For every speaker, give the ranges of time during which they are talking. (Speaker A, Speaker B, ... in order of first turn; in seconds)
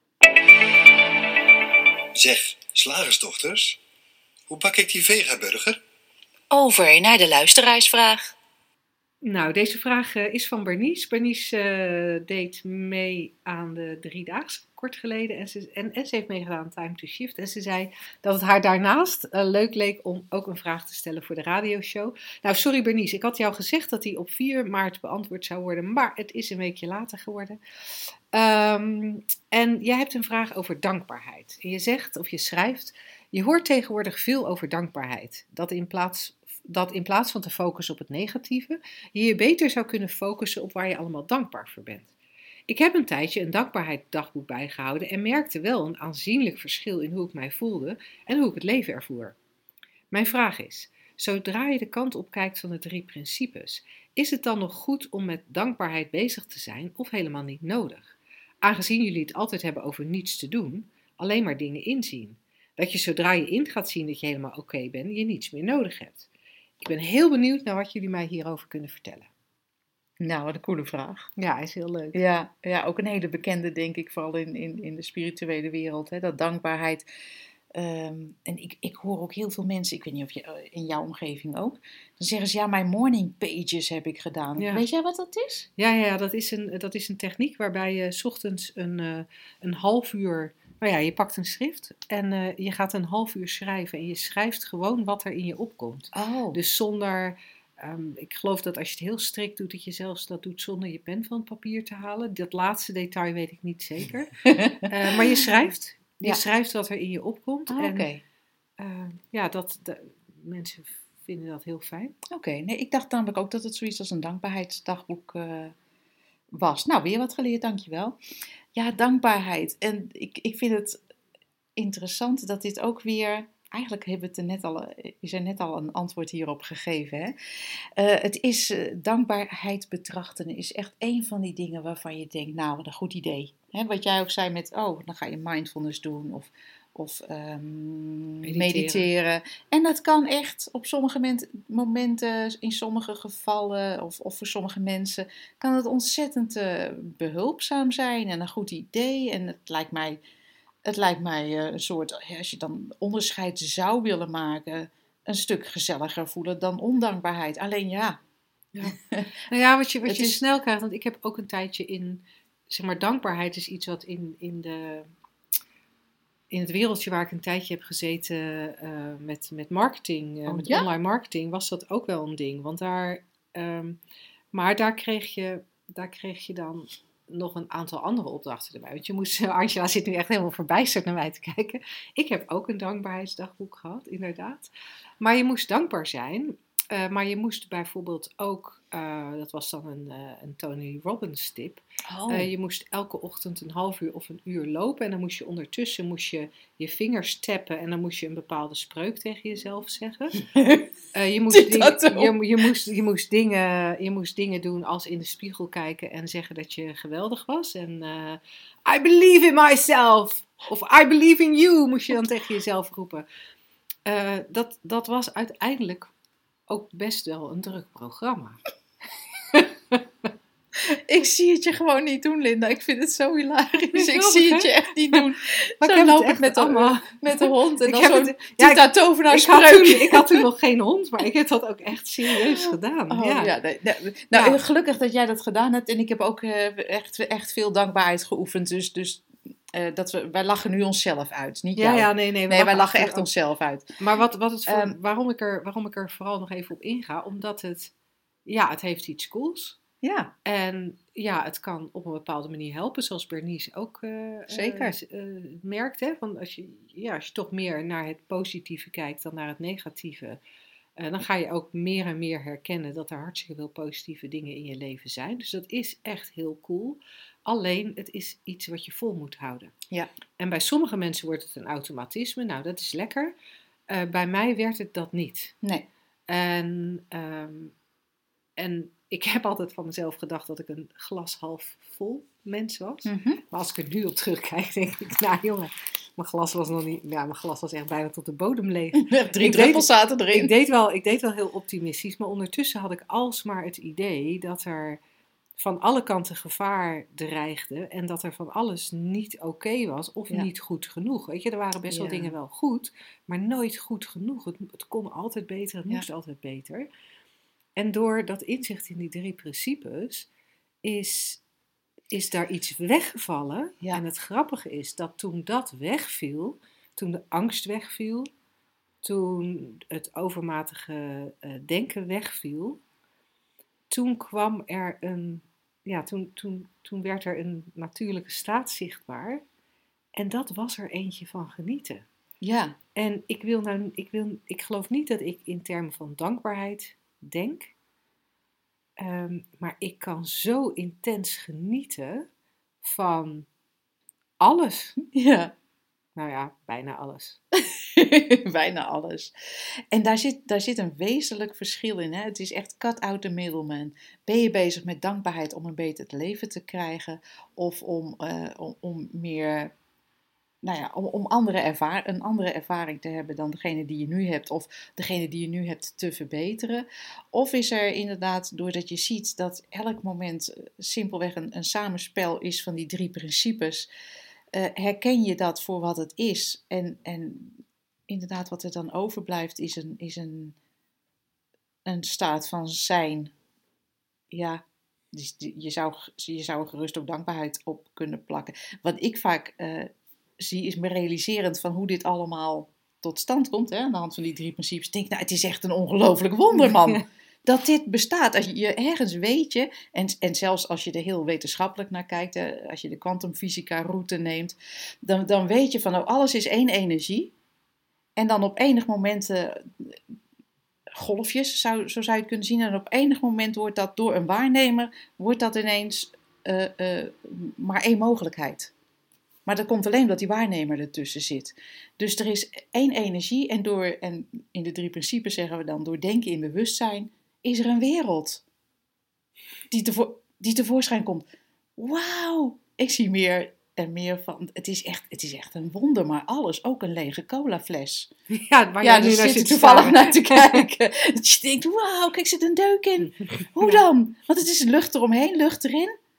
Speaker A: 2.1-3.8, 4.5-5.8
Speaker B: 6.5-8.3, 70.2-71.3, 72.1-77.0, 77.7-85.7, 96.1-96.6, 104.4-104.9, 107.7-108.2, 112.3-115.7, 116.5-118.2, 118.7-121.0, 121.8-150.2, 150.8-158.2, 158.9-159.3, 160.1-160.4, 170.5-170.9, 192.1-192.5, 200.5-200.9, 201.5-202.4, 220.8-230.4, 232.3-243.9, 244.7-244.9, 250.0-250.3, 254.5-255.0, 283.0-283.4, 289.0-290.5, 301.9-302.3, 332.4-332.8, 345.1-345.5, 347.6-359.7, 360.6-373.9, 374.5-380.6, 381.9-383.3, 384.3-407.3, 408.1-410.0, 410.9-418.7, 419.4-428.4, 429.7-431.2, 431.8-438.1, 438.8-445.9
Speaker C: 9.2-42.1, 42.7-49.4, 50.1-66.3, 66.8-69.3, 71.4-72.2, 84.6-84.8, 85.8-108.1, 108.8-112.2, 138.4-139.1, 158.7-165.1, 166.5-174.0, 174.5-184.7, 185.2-200.5, 201.1-213.2, 214.1-216.1, 216.7-218.6, 223.9-225.2, 225.8-233.5, 234.3-234.6, 241.8-243.3, 244.0-247.9, 248.4-249.8, 250.4-260.4, 261.0-269.7, 270.4-273.3, 273.9-275.6, 276.3-277.7, 278.6-295.0, 295.6-306.9, 307.8-310.3, 310.8-311.4, 312.1-318.3, 319.0-322.8, 323.9-329.4, 330.1-332.1, 332.9-337.7, 339.0-342.3, 342.8-343.5, 344.4-344.9, 346.1-347.4, 396.6-397.0, 438.3-440.6, 443.0-443.8